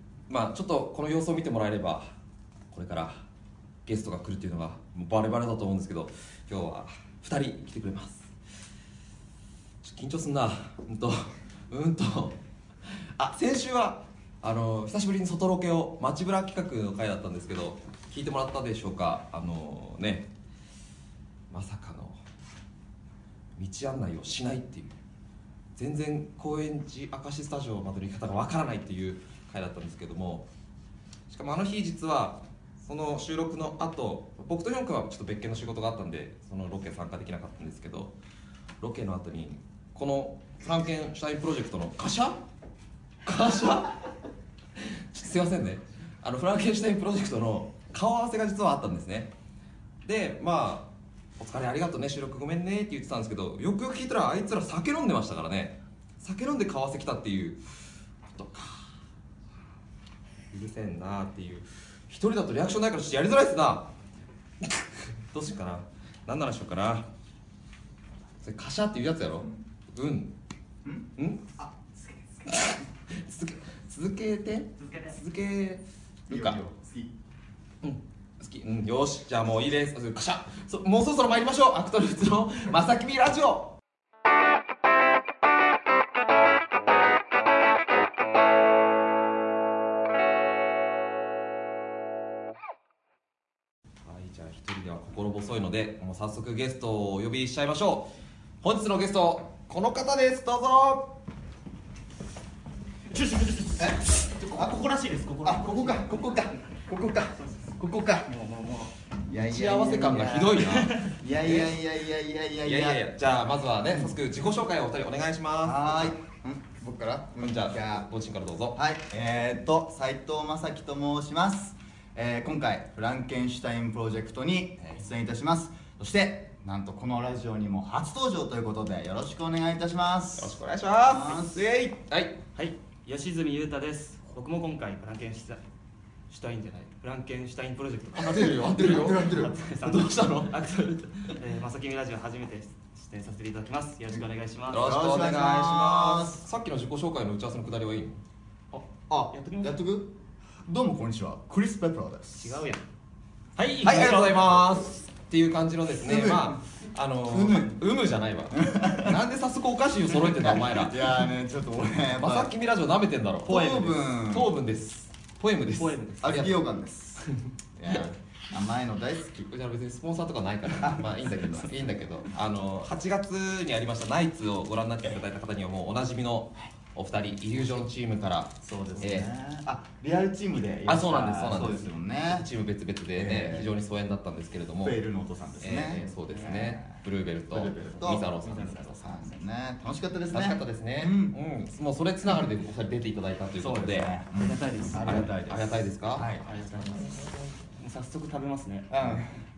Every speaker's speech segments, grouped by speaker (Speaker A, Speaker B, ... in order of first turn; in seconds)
Speaker A: 0.3-2.1, 2.7-3.2, 3.9-8.3, 9.8-20.3, 21.5-22.2, 23.6-24.9, 25.8-30.5, 31.3-38.1, 38.8-42.4, 43.2-44.0, 44.8-49.3, 50.0-57.6, 58.3-58.9, 60.5-63.9, 64.6-67.1, 68.4-70.3, 71.2-71.4, 72.5-76.6, 77.8-83.8, 94.0-98.1, 98.6-101.2, 109.3-111.8, 112.6-116.1, 117.4-118.8, 130.4-132.4, 138.2-140.6, 144.7-148.2, 153.8-161.1, 162.2-166.5, 169.5-179.3, 180.8-185.0, 185.6-188.9, 190.3-194.1, 195.0-196.3
Speaker B: 70.8-72.8, 76.3-77.1, 103.8-104.9, 105.4-113.0, 113.9-114.2, 115.6-118.1, 118.7-130.5, 131.0-131.7, 138.4-139.6, 144.7-146.4, 148.9-150.1, 150.7-152.6, 156.0-156.6, 157.2-157.8, 158.5-159.2, 160.3-162.5, 163.4-164.5, 166.2-167.2, 167.8-169.5, 170.8-171.9, 178.6-182.5, 183.2-183.7, 184.8-187.0, 187.5-191.3, 193.6-196.4, 198.9-199.3
Speaker C: 103.1-106.1, 108.4-108.7, 110.7-111.1, 132.5-135.6, 136.3-144.9, 149.3-149.8, 152.4-152.8, 153.6-154.4, 165.6-166.5, 194.4-195.3, 196.4-197.2, 197.8-198.9